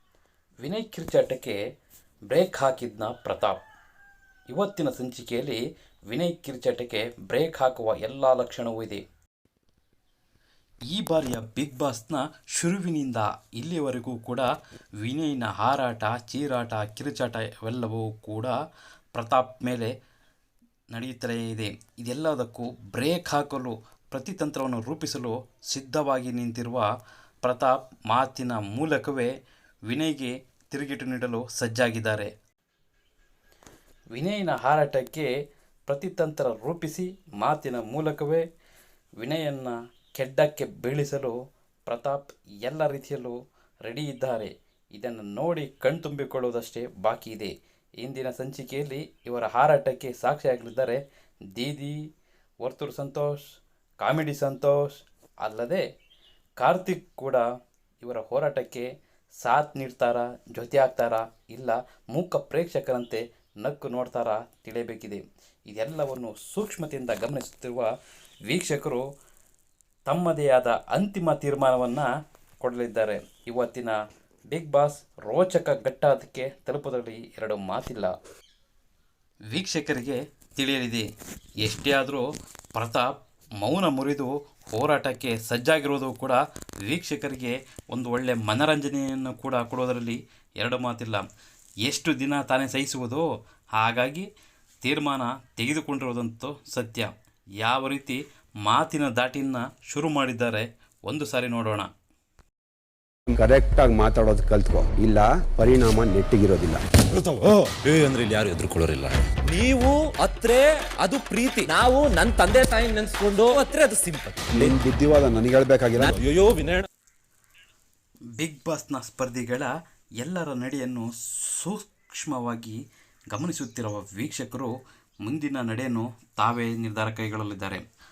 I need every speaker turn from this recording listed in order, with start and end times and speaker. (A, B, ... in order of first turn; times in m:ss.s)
0:00.6-0:01.6 A
0:02.3-0:03.6 A
0:04.5-0:09.0 A
0:10.9-0:14.5 A
0:15.0-0:18.5 A
0:19.1-0:19.9 A
0:20.9-0:26.9 A
0:27.4-0:29.3 A
0:29.9-0:32.3 A
0:34.1-0:35.3 A
0:35.9-0:38.4 A
0:39.2-0:41.4 A
0:41.9-0:51.0 A
0:51.5-0:52.0 A
0:52.6-0:53.4 A
0:54.0-0:55.8 A
0:56.6-0:57.5 A
0:58.0-0:58.9 A
0:59.4-1:07.9 A
1:08.5-1:09.0 A
1:10.1-1:12.1 A
1:12.6-1:14.0 A
1:14.5-1:18.1 A
1:19.5-1:21.1 A
1:21.6-1:31.2 A
1:31.8-1:34.3 A
1:34.8-1:41.9 A
1:43.3-1:46.8 B
1:47.1-1:49.4 C
1:49.4-1:54.7 D
1:54.5-1:56.2 B
1:56.0-1:56.4 D
1:56.1-1:56.8 C
1:58.4-2:02.8 A
2:03.3-2:07.8 A